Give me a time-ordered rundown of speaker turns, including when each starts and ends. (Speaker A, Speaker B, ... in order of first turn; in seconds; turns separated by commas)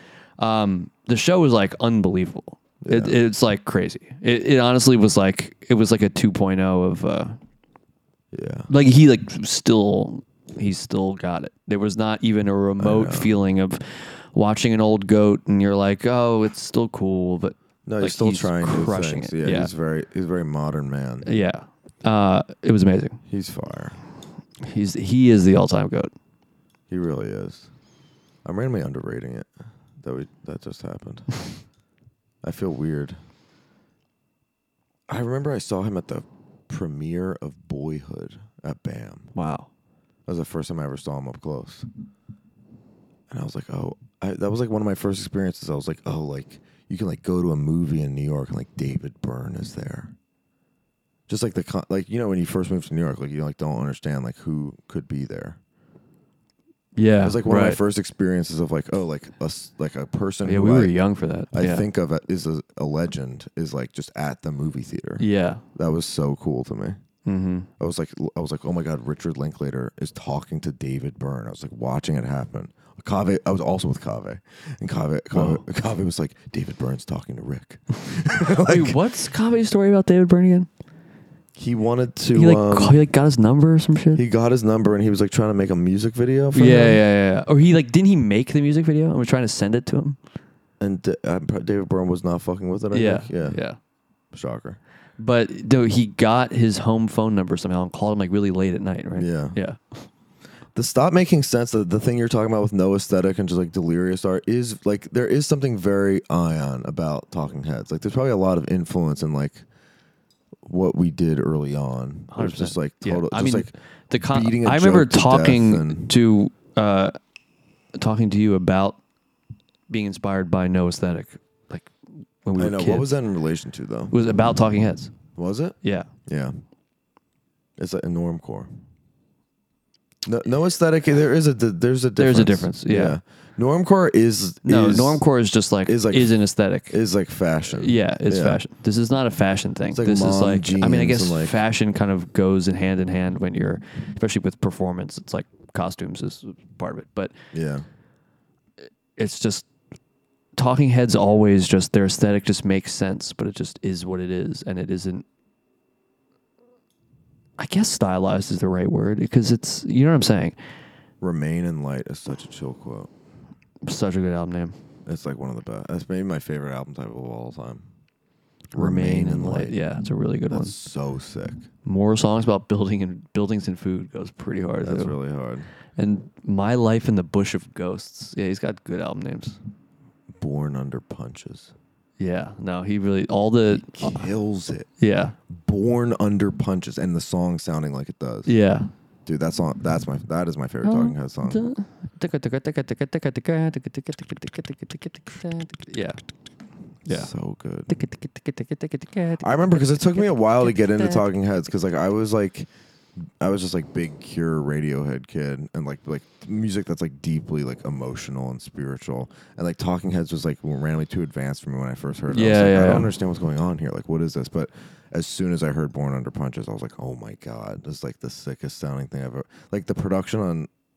Speaker A: 0.4-7.4, Speaker B: 2.8-3.2, Speaker B: 8.3-8.7, Speaker A: 8.7-19.7, Speaker B: 12.8-13.3, Speaker B: 17.9-21.3, Speaker A: 21.2-23.2, Speaker B: 23.3-24.0, Speaker A: 24.6-26.1, Speaker B: 26.9-27.7, Speaker B: 28.4-29.5, Speaker B: 30.0-31.4, Speaker B: 32.4-33.2, Speaker B: 35.1-39.3, Speaker A: 39.4-39.7, Speaker B: 40.3-41.9, Speaker B: 43.3-50.1, Speaker B: 51.3-55.6, Speaker A: 57.0-57.8, Speaker B: 57.2-61.0, Speaker A: 60.4-61.9, Speaker B: 61.5-67.0, Speaker A: 65.2-65.6, Speaker A: 67.2-67.7, Speaker B: 67.8-79.0, Speaker A: 75.3-75.6, Speaker A: 78.6-80.7, Speaker B: 81.6-83.0, Speaker A: 82.3-84.2, Speaker B: 84.2-87.0, Speaker A: 86.5-90.2, Speaker B: 90.8-93.6, Speaker A: 92.9-93.8, Speaker B: 94.3-94.8, Speaker A: 95.2-99.8, Speaker B: 99.2-99.6, Speaker B: 100.8-109.7, Speaker B: 110.6-116.1, Speaker A: 112.3-117.2, Speaker A: 118.0-119.0, Speaker A: 119.9-121.9, Speaker A: 122.4-123.1, Speaker B: 122.5-124.2, Speaker A: 124.1-125.1, Speaker B: 125.3-126.6, Speaker A: 125.8-126.1, Speaker B: 127.8-128.7, Speaker B: 130.3-135.2, Speaker A: 132.2-133.2, Speaker A: 134.7-137.0, Speaker B: 135.9-136.4, Speaker B: 136.9-138.6, Speaker A: 137.8-147.3, Speaker B: 139.9-141.6, Speaker B: 147.5-147.9, Speaker A: 149.2-149.7, Speaker A: 150.6-155.2, Speaker A: 157.6-160.6, Speaker B: 161.2-163.1, Speaker A: 163.8-164.8, Speaker B: 165.1-167.9, Speaker B: 168.7-169.8, Speaker A: 168.7-170.7, Speaker B: 170.5-171.7, Speaker A: 171.9-175.2, Speaker B: 174.8-175.7, Speaker A: 176.0-179.6, Speaker B: 180.3-181.7, Speaker A: 182.2-184.3, Speaker B: 183.7-184.9, Speaker A: 185.0-185.3, Speaker B: 185.5-188.5, Speaker A: 188.5-188.9, Speaker B: 189.3-191.6, Speaker A: 190.8-196.2, Speaker B: 197.1-198.0, Speaker A: 197.9-201.2, Speaker B: 199.4-202.7, Speaker B: 203.4-220.7, Speaker A: 212.3-213.1